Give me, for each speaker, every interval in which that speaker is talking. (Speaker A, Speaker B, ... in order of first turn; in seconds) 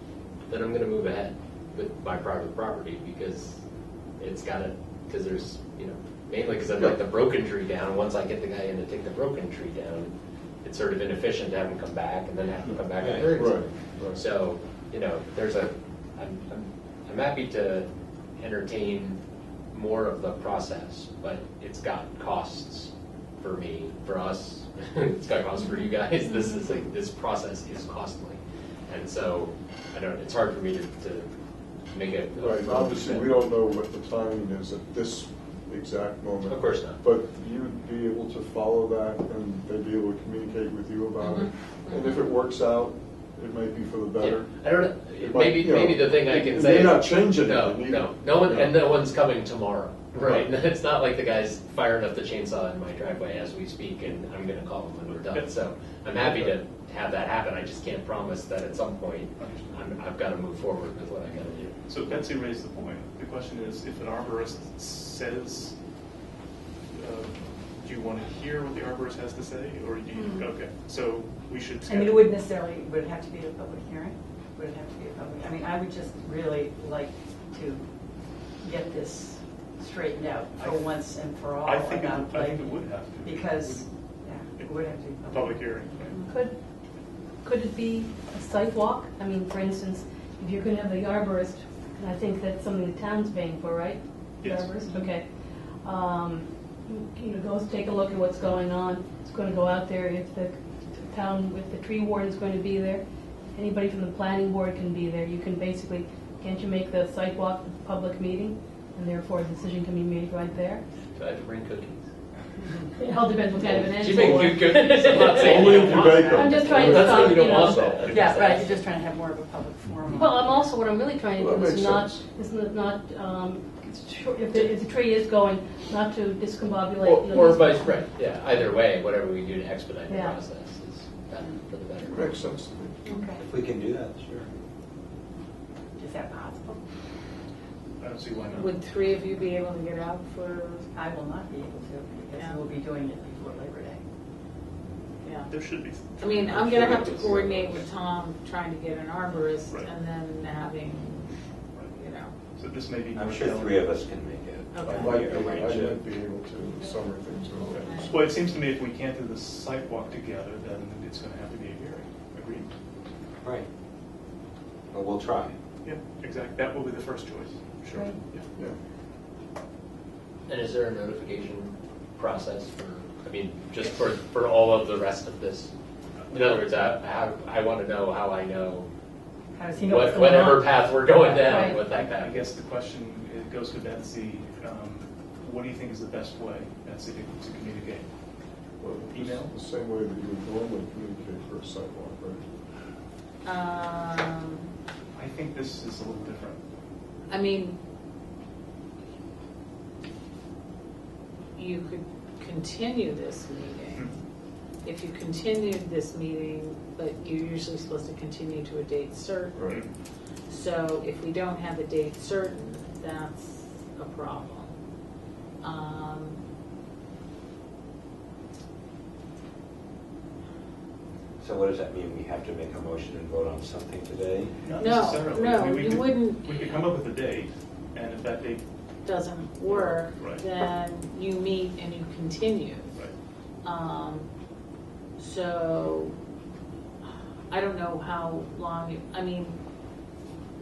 Speaker A: 0.5-3.6, 4.2-10.1, 10.6-17.9, 18.4-19.2, 19.7-31.3, 31.9-33.4, 36.5-37.0, 44.2-61.7, 111.2-112.1, 113.8-118.8, 127.0-132.4, 170.5-175.7, 176.3-178.9, 179.8-182.4
Speaker B: 13.0-13.3, 153.2-155.5, 164.9-165.6, 221.4-224.5
Speaker C: 13.3-14.2, 32.4-48.8, 50.2-50.5, 113.6-114.6, 115.3-118.0, 121.4-122.2, 132.0-133.0, 154.9-157.9, 188.8-192.4, 209.5-209.8
Speaker D: 41.2-42.1, 133.1-133.3, 138.5-140.9, 142.3-142.6, 145.2-145.5, 146.2-151.4, 151.9-152.3, 154.7-155.2, 157.8-158.3, 193.4-194.7, 197.3-197.8, 201.6-204.1, 204.8-209.6, 210.5-214.7, 215.6-216.4, 224.8-226.8, 229.1-232.9, 233.6-234.3, 235.2-236.2, 237.5-239.6
Speaker E: 55.1-56.6, 59.4-59.8, 61.9-65.7, 66.9-72.4, 80.5-80.9, 81.6-83.9, 85.3-86.2, 94.4-94.7, 118.0-118.4, 138.0-138.8, 145.5-147.5, 152.6-153.9, 157.8-162.7, 165.8-168.5, 181.8-188.1, 189.1-189.5, 195.2-196.6, 224.6-228.6, 229.7-230.4
Speaker F: 70.2-70.5, 86.2-86.5, 87.4-95.3, 95.8-103.0, 103.5-110.8, 113.0-115.6, 116.4-117.8, 120.2-128.0, 130.1-130.4, 181.5-181.8
Speaker G: 71.9-77.8, 78.5-86.2, 115.2-116.5, 118.0-120.7, 133.1-134.4, 136.0-136.8, 140.9-144.0, 153.3-156.0, 167.9-168.2, 179.5-181.7